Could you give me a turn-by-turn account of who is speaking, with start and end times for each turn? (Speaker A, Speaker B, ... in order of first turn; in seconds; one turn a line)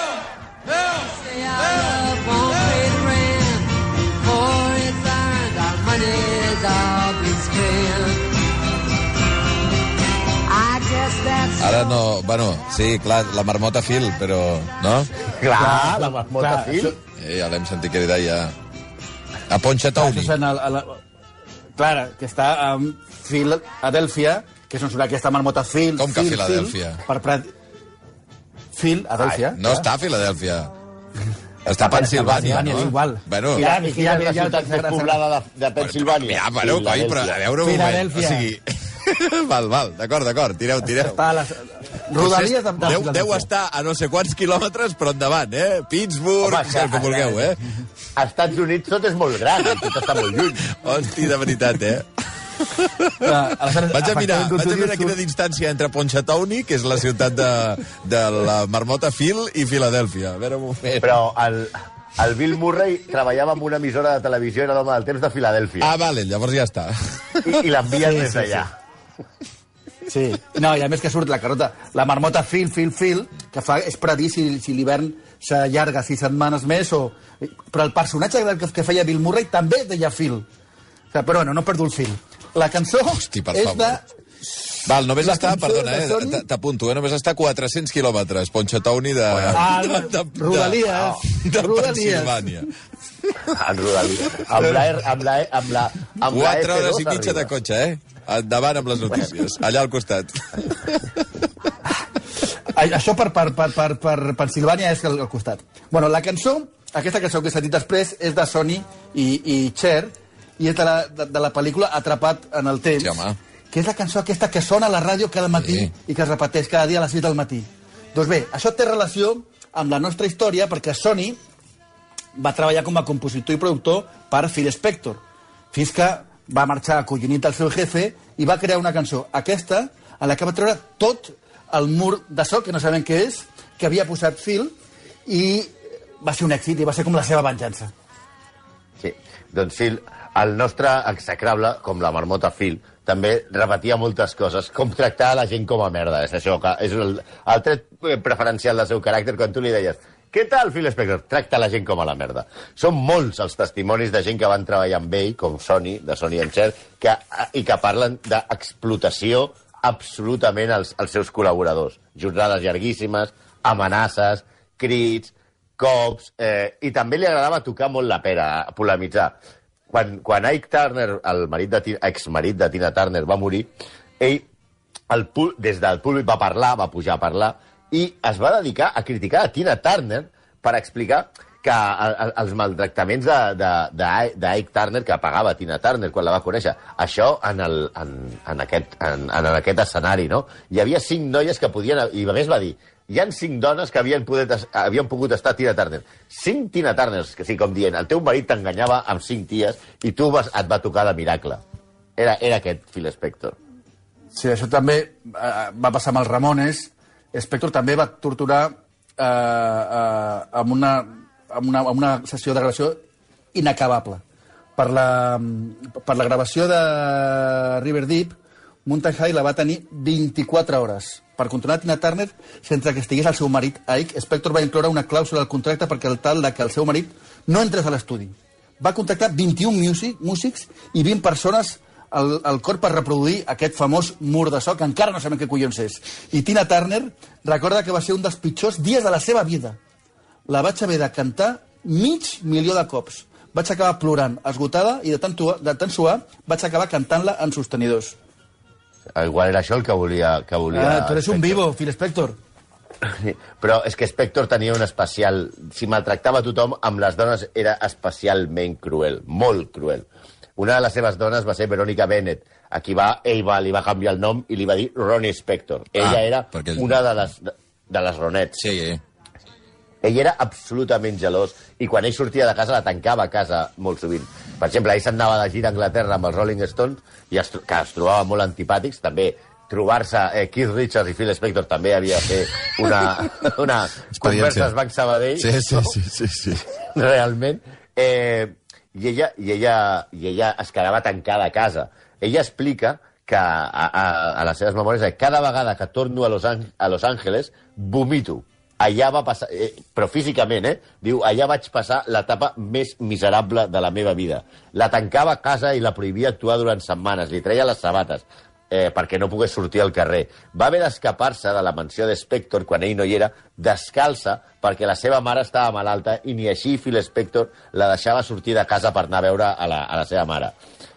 Speaker A: 0.7-8.2
Speaker A: 10.4-12.0
Speaker B: 11.6-15.1
Speaker C: 15.3-16.9
Speaker D: 15.6-17.0
Speaker B: 17.2-18.5
Speaker B: 19.5-20.3
Speaker D: 19.9-21.0
Speaker D: 21.8-27.5
Speaker B: 26.0-27.0
Speaker D: 28.7-29.9
Speaker B: 29.5-30.7
Speaker B: 31.6-33.6
Speaker D: 31.8-35.2
Speaker C: 33.5-37.4
Speaker B: 35.8-41.2
Speaker D: 37.6-38.5
Speaker D: 40.9-43.5
Speaker B: 42.1-47.6
Speaker C: 46.4-47.3
Speaker D: 47.3-47.6
Speaker C: 48.1-50.7
Speaker B: 50.7-53.3
Speaker D: 53.2-55.1
Speaker B: 53.9-61.2
Speaker C: 61.0-65.9
Speaker B: 65.8-67.6
Speaker C: 67.4-68.7
Speaker D: 68.0-68.7
Speaker D: 70.1-80.5
Speaker D: 81.1-84.0
Speaker B: 83.1-84.0
Speaker B: 84.8-92.7
Speaker D: 85.2-86.4
Speaker C: 89.3-89.6
Speaker D: 89.5-92.5
Speaker C: 93.5-97.5
Speaker B: 96.2-101.2
Speaker D: 102.7-121.4
Speaker B: 113.0-113.4
Speaker B: 115.5-115.9
Speaker D: 122.3-125.2
Speaker D: 125.7-134.7
Speaker D: 135.2-137.9
Speaker C: 139.0-169.4
Speaker C: 169.9-173.7
Speaker C: 174.2-174.5
Speaker C: 175.1-201.6
Speaker C: 202.2-203.6
Speaker D: 204.3-213.0
Speaker D: 213.5-214.2
Speaker D: 214.8-239.8
Speaker D: 240.5-248.2
Speaker C: 249.1-251.6
Speaker D: 250.7-252.4
Speaker C: 253.0-268.6
Speaker B: 266.0-267.1
Speaker B: 268.6-269.0
Speaker C: 270.0-286.0
Speaker B: 284.1-284.7
Speaker B: 285.4-286.6
Speaker C: 286.6-320.5